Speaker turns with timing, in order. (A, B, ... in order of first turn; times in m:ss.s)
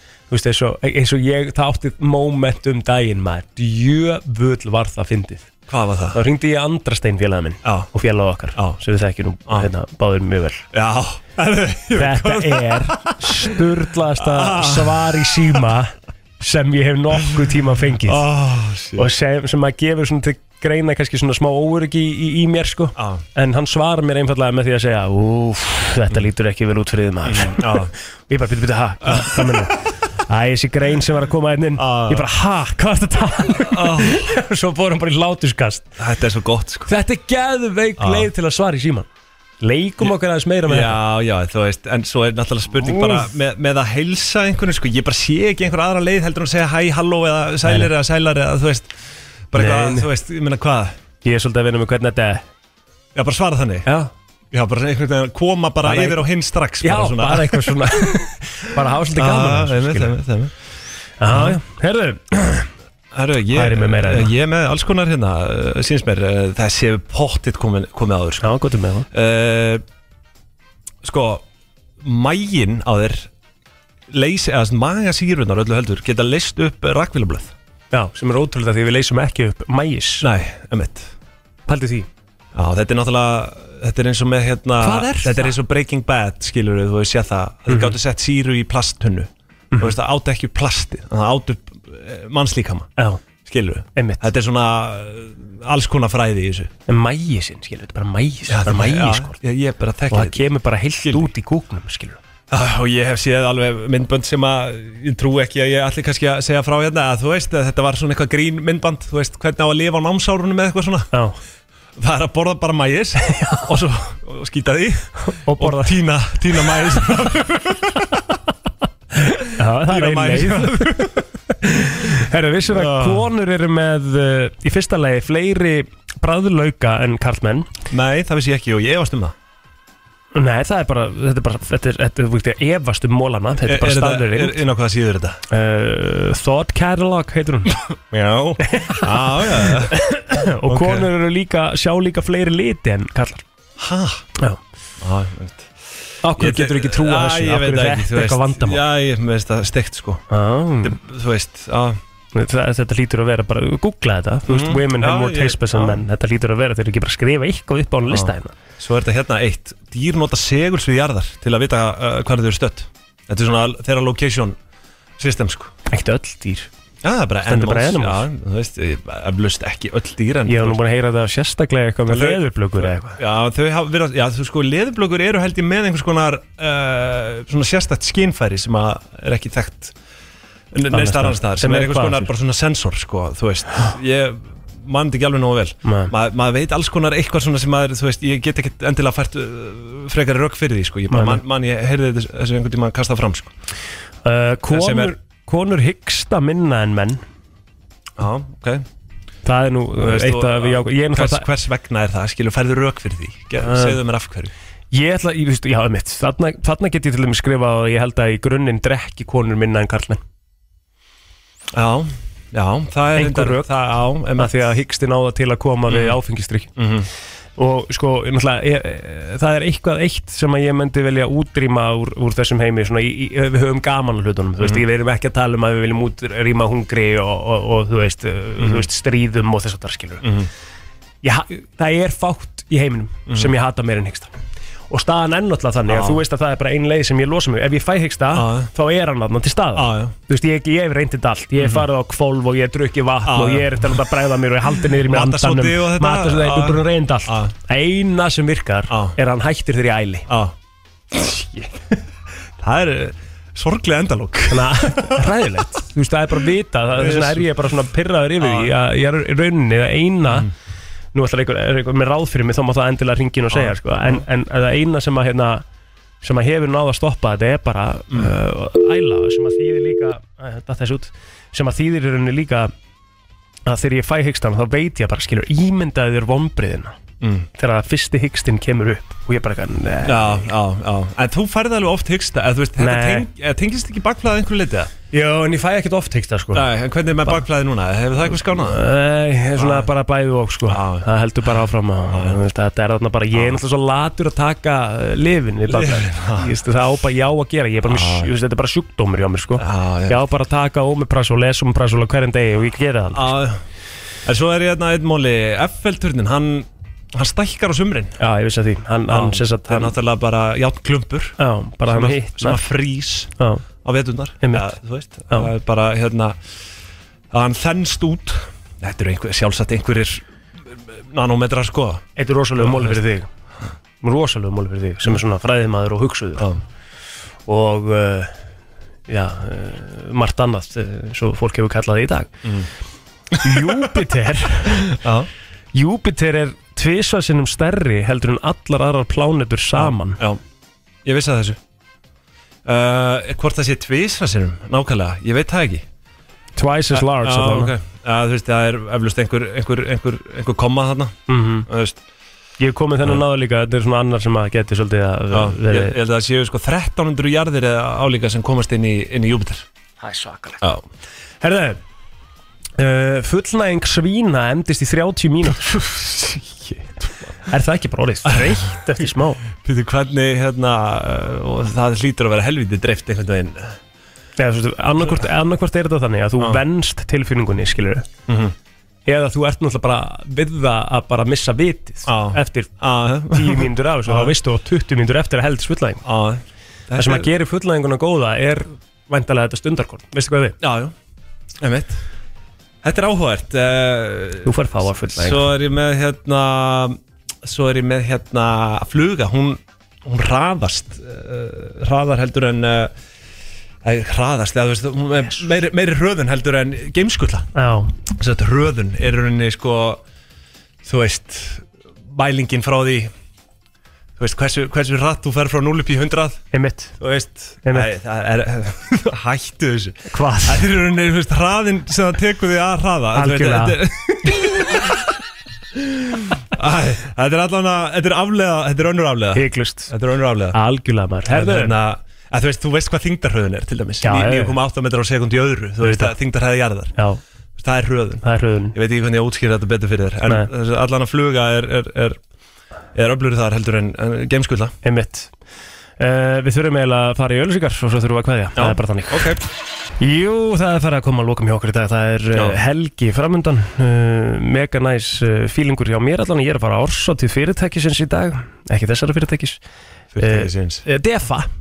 0:00.3-0:05.5 A
0:05.7-0:06.2 B
0:06.1-0:10.6 A
0:07.6-0:07.9 B
0:10.7-0:13.6 B
0:11.9-0:18.2 A
0:14.2-0:15.6 B
0:18.0-0:19.1 B
0:19.0-0:35.9 A
0:23.0-0:23.2 B
0:27.2-0:27.9 B
0:29.0-0:29.6 B
0:31.8-0:32.2 B
0:33.5-0:34.3 B
0:36.0-0:36.9 B
0:36.9-0:39.1 A
0:38.0-0:38.3 B
0:39.6-0:41.0 A
0:40.6-0:49.0 B
0:42.8-0:43.3 A
0:47.6-0:47.9 A
0:49.5-0:51.0 B
0:49.5-0:50.1 A
0:51.2-0:52.4 A
0:53.1-0:53.9 B
0:53.8-0:54.1 A
0:54.5-0:58.2 B
0:55.8-0:56.2 A
0:56.8-1:00.1 A
0:59.1-1:00.5 B
1:01.2-1:02.7 A
1:01.3-1:01.6 B
1:03.1-1:08.5 B
1:03.5-1:04.3 A
1:08.4-1:09.1 A
1:09.1-1:09.8 B
1:11.0-1:11.4 B
1:12.0-1:13.3 B
1:14.1-1:17.5 B
1:17.9-1:20.2 A
1:20.2-1:21.1 B
1:21.7-1:22.1 A
1:22.5-1:32.9 B
1:24.8-1:25.5 A
1:27.7-1:28.0 A
1:33.0-1:33.2 A
1:33.4-1:36.7 B
1:33.9-1:34.3 A
1:36.9-1:39.4 A
1:38.5-1:40.4 B
1:40.1-1:42.2 A
1:41.0-1:41.3 B
1:42.5-1:51.1 B
1:51.1-1:51.4 A
1:52.0-1:58.1 B
1:53.4-1:53.6 A
1:55.2-1:56.0 A
1:56.6-1:57.0 A
1:59.5-2:07.7 A
1:59.8-2:01.2 B
2:02.7-2:03.3 B
2:07.9-2:09.3 B
2:10.3-2:14.6 A
2:13.6-2:15.4 B
2:15.5-2:17.8 A
2:18.1-2:20.0 B
2:18.6-2:23.4 A
2:20.6-2:21.1 B
2:23.8-2:24.2 B
2:25.0-2:25.8 B
2:26.2-2:28.8 A
2:26.4-2:30.2 B
2:30.3-2:31.0 A
2:30.8-2:32.0 B
2:32.3-2:38.5 A
2:34.5-2:36.0 B
2:38.1-2:44.6 B
2:45.2-2:45.7 B
2:45.9-2:46.7 A
2:47.0-2:50.8 B
2:47.4-2:48.2 A
2:50.5-2:53.2 A
2:52.1-2:59.9 B
3:00.7-3:13.5 B
3:00.9-3:02.3 A
3:05.8-3:06.1 A
3:11.1-3:11.4 A
3:14.2-3:17.2 A
3:14.7-3:15.1 B
3:18.2-3:18.8 B
3:19.4-3:21.4 A
3:20.0-3:24.5 B
3:23.6-3:24.0 A
3:24.9-3:30.2 A
3:31.7-3:34.6 B
3:33.1-3:33.6 A
3:34.4-3:36.7 A
3:35.9-3:36.2 B
3:36.8-3:37.1 B
3:37.6-3:50.3 A
3:48.6-3:48.9 B
3:50.2-3:50.5 B
3:51.2-3:54.3 A
3:54.9-4:10.3 A
3:55.9-3:56.2 B
3:58.3-3:58.7 B
3:59.7-4:00.1 B
4:01.6-4:01.8 B
4:03.2-4:04.0 B
4:04.7-4:07.5 B
4:08.9-4:09.2 B
4:10.3-4:10.5 B
4:11.1-4:11.6 B
4:12.6-4:15.2 B
4:14.5-4:20.5 A
4:16.9-4:17.5 B
4:18.4-4:18.7 B
4:20.2-4:20.5 B
4:21.1-4:25.6 A
4:23.5-4:24.2 B
4:26.2-4:32.7 A
4:33.6-4:37.0 A
4:37.2-4:37.5 B
4:37.6-4:40.4 A
4:40.0-4:44.9 B
4:42.8-4:43.2 A
4:45.1-4:46.6 A
4:46.5-4:48.8 B
4:48.4-5:03.3 A
4:49.6-4:49.9 B
4:50.7-4:51.1 B
4:52.1-4:52.4 B
4:53.3-4:53.6 B
4:55.7-4:56.5 B
4:57.8-4:58.3 B
4:59.6-5:00.2 B
5:03.1-5:03.6 B
5:04.2-5:08.1 B
5:08.2-5:09.9 A
5:09.1-5:11.4 B
5:11.4-5:12.6 A
5:11.9-5:13.3 B
5:13.8-5:16.4 B
5:14.4-5:14.7 A
5:17.3-5:20.2 B
5:21.0-5:22.0 B
5:22.2-5:23.3 A
5:22.6-5:23.0 B
5:24.0-5:26.5 A
5:27.4-5:28.3 A
5:29.1-5:32.3 A
5:32.4-5:32.7 B
5:33.3-5:33.8 B
5:33.4-5:34.9 A
5:34.8-5:35.3 B
5:35.7-5:40.2 A
5:39.7-5:40.4 B
5:41.0-5:41.6 B
5:42.6-5:45.8 B
5:46.6-5:47.7 A
5:46.9-5:52.0 B
5:51.3-5:51.7 A
5:52.6-5:56.0 A
5:55.3-5:59.6 B
6:00.0-6:00.6 A
6:01.4-6:01.8 A
6:02.8-6:06.8 A
6:07.0-6:07.3 B
6:07.5-6:09.4 A
6:08.2-6:09.0 B
6:09.6-6:13.8 B
6:14.4-6:18.1 A
6:15.0-6:15.3 B
6:18.3-6:18.5 B
6:19.0-6:22.7 A
6:22.1-6:24.3 B
6:23.3-6:26.0 A
6:26.0-6:27.3 B
6:27.0-6:30.6 A
6:30.6-6:30.9 B
6:31.6-6:32.0 B
6:32.8-6:42.9 B
6:34.4-6:35.5 A
6:43.8-6:47.5 B
6:47.5-6:47.9 A
6:48.1-6:50.0 B
6:50.8-6:53.1 B
6:54.2-6:56.4 B
6:56.5-6:57.0 A
6:57.0-7:05.0 B
6:57.6-6:57.9 A
7:00.1-7:00.7 A
7:03.1-7:03.8 A
7:05.7-7:10.6 B
7:09.3-7:09.9 A
7:10.5-7:11.7 A
7:11.3-7:16.9 B
7:14.0-7:14.6 A
7:15.8-7:16.1 A
7:17.0-7:17.2 A
7:17.6-7:22.2 B
7:18.2-7:18.7 A
7:22.9-7:24.7 B
7:24.8-7:25.3 A
7:26.0-7:29.3 A
7:28.6-7:29.4 B
7:30.0-7:39.6 A
7:32.3-7:32.6 B
7:40.1-7:40.8 B
7:40.2-7:41.5 A